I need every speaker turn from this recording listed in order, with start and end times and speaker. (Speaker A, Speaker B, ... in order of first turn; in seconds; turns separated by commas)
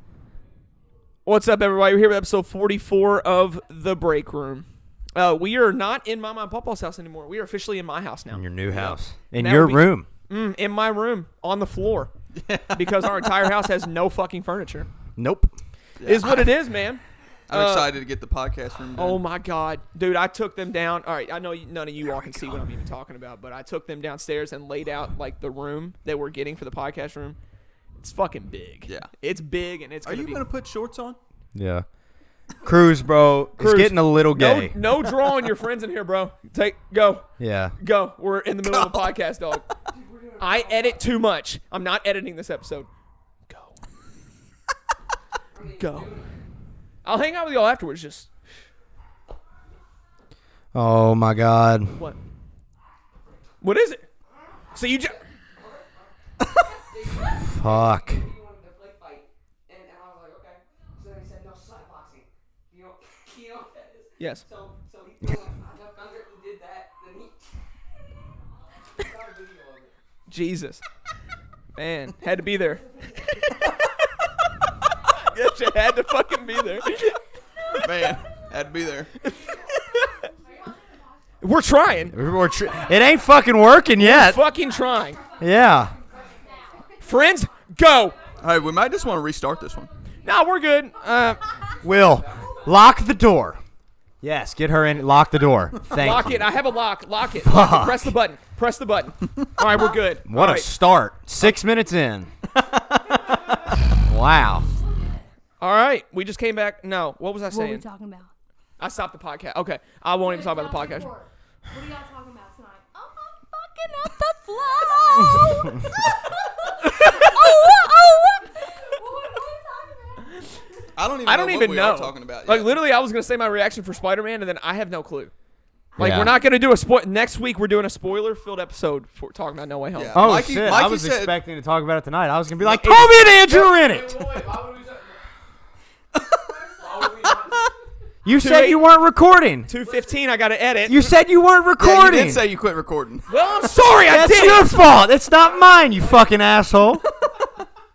Speaker A: 1.2-12.1, Speaker B: 8.3-10.1, Speaker C: 12.3-13.5, Speaker A: 12.7-14.9, Speaker B: 15.2-15.5, Speaker C: 16.0-16.5, Speaker A: 16.0-17.9, Speaker C: 17.5-19.2, Speaker A: 18.9-27.4, Speaker A: 28.0-30.4, Speaker C: 30.0-31.2, Speaker B: 31.5-31.9, Speaker B: 32.6-34.8, Speaker A: 33.6-37.2, Speaker B: 37.4-37.7, Speaker A: 37.8-39.6, Speaker C: 38.6-39.1, Speaker D: 39.9-41.0, Speaker A: 40.4-42.9, Speaker A: 43.5-43.8, Speaker D: 45.5-46.3, Speaker A: 45.8-46.1, Speaker A: 47.0-48.3, Speaker B: 50.7-52.0, Speaker A: 53.6-54.1, Speaker A: 54.7-55.2, Speaker D: 55.6-67.5, Speaker B: 57.3-58.2, Speaker A: 64.2-64.4, Speaker D: 68.9-69.9, Speaker A: 70.3-70.8, Speaker A: 71.7-73.8, Speaker A: 75.0-77.9, Speaker C: 77.8-79.1, Speaker A: 79.2-80.3, Speaker E: 79.2-81.5, Speaker A: 81.4-82.2, Speaker B: 82.1-84.4, Speaker A: 84.0-85.2, Speaker E: 84.4-87.4, Speaker B: 85.4-86.0, Speaker A: 87.0-88.2, Speaker E: 88.2-91.8, Speaker C: 88.4-89.9, Speaker A: 90.2-91.5, Speaker D: 91.7-92.8, Speaker B: 91.8-93.6, Speaker E: 92.3-92.6, Speaker B: 94.2-96.5, Speaker A: 95.9-100.7, Speaker B: 97.4-98.1, Speaker B: 100.2-104.7, Speaker E: 103.1-105.3, Speaker A: 105.6-107.8, Speaker E: 107.5-108.3, Speaker A: 108.8-111.1, Speaker E: 110.2-120.9, Speaker C: 121.0-122.8, Speaker A: 121.2-125.3, Speaker B: 126.0-126.4, Speaker A: 126.0-130.3, Speaker C: 129.9-131.4, Speaker B: 130.1-134.4, Speaker A: 132.6-133.3, Speaker D: 133.5-135.2, Speaker E: 136.6-137.1, Speaker D: 136.7-137.7, Speaker B: 138.2-139.7, Speaker A: 138.3-138.9, Speaker A: 139.7-141.1, Speaker D: 139.8-140.1, Speaker B: 140.8-142.4, Speaker C: 141.8-143.3, Speaker E: 143.3-144.0, Speaker A: 143.3-144.8, Speaker B: 144.1-147.0